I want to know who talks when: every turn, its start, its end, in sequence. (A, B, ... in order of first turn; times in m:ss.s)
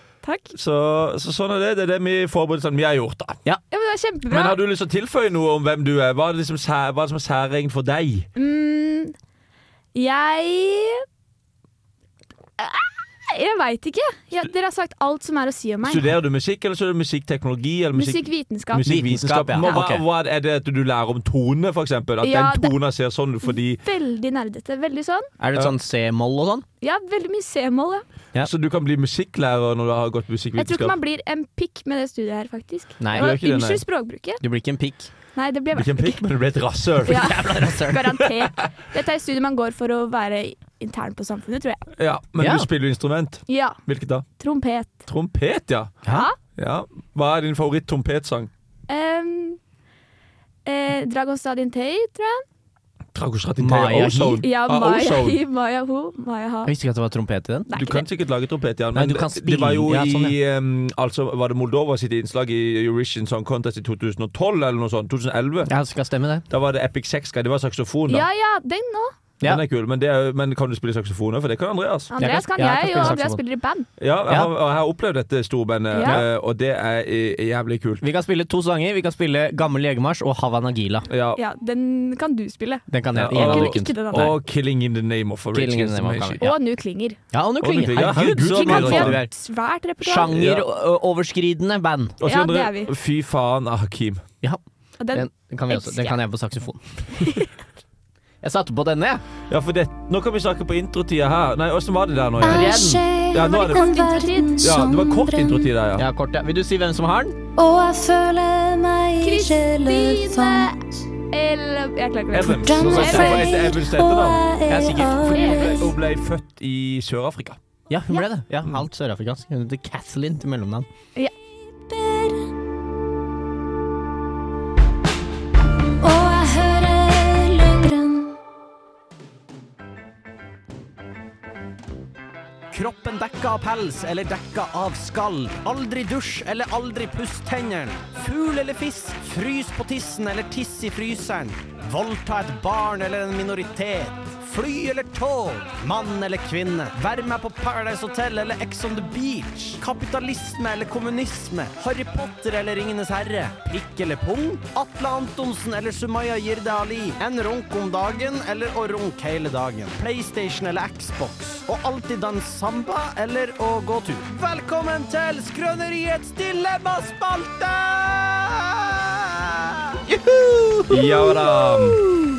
0:00.2-0:00.5 A
0:00.5-0:03.4 B
0:03.7-0:04.6 A
0:04.3-0:08.3 B
0:08.4-0:09.1 A
0:09.9-0:11.0 A
0:12.6-0:16.1 A
0:15.8-0:23.8 B
0:17.9-0:18.9 A
0:18.8-0:20.0 C
0:22.2-0:22.8 A
0:23.4-0:25.3 A
0:25.4-0:26.6 C
0:26.8-0:28.0 A
0:28.4-0:31.0 B
0:30.6-0:34.4 A
0:33.0-0:33.3 C
0:33.1-0:33.8 B
0:34.4-0:35.1 C
0:35.4-0:36.3 A
0:35.7-0:37.3 B
0:37.0-0:41.8 A
0:37.1-0:38.1 C
0:42.0-0:44.2 B
0:42.4-0:42.7 C
0:43.5-0:43.8 A
0:44.4-0:45.0 A
0:45.1-0:46.0 B
0:46.1-0:46.4 A
0:46.6-0:48.5 B
0:48.9-0:49.6 A
0:50.7-0:52.4 A
0:53.1-0:55.4 B
0:53.6-0:54.4 C
0:54.3-0:56.7 A
0:56.7-0:57.7 C
0:57.7-0:58.1 A
0:57.7-1:05.7 B
0:59.0-1:00.4 C
1:05.7-1:06.4 C
1:06.5-1:08.2 B
1:08.1-1:09.2 A
1:09.4-1:12.1 B
1:12.1-1:13.9 A
1:12.2-1:13.4 C
1:14.0-1:18.0 B
1:15.9-1:16.2 A
1:16.0-1:16.3 C
1:18.0-1:21.1 C
1:21.1-1:21.4 B
1:21.4-1:24.4 A
1:22.9-1:24.3 C
1:23.2-1:26.4 B
1:25.5-1:26.6 C
1:26.4-1:27.2 A
1:27.3-1:29.3 C
1:27.6-1:29.2 B
1:28.4-1:30.3 A
1:30.0-1:32.2 C
1:30.2-1:30.7 B
1:32.2-1:34.2 B
1:32.2-1:32.9 A
1:35.0-1:36.2 A
1:35.1-1:37.2 C
1:37.2-1:37.5 A
1:38.4-1:39.2 C
1:39.5-1:44.0 B
1:42.4-1:43.1 C
1:42.4-1:45.7 D
1:43.4-1:44.7 A
1:44.6-1:46.0 B
1:46.0-1:47.4 C
1:47.6-1:50.8 D
1:49.2-1:50.7 A
1:51.3-1:53.6 A
1:52.3-1:54.5 B
1:52.6-1:55.9 D
1:52.8-1:53.4 C
1:54.7-1:55.3 C
1:55.2-1:57.6 B
1:55.3-1:55.8 A
1:57.9-2:00.9 C
2:06.0-2:08.3 D
2:12.7-2:50.0 E
2:50.1-2:51.5 C
2:50.9-2:52.0 B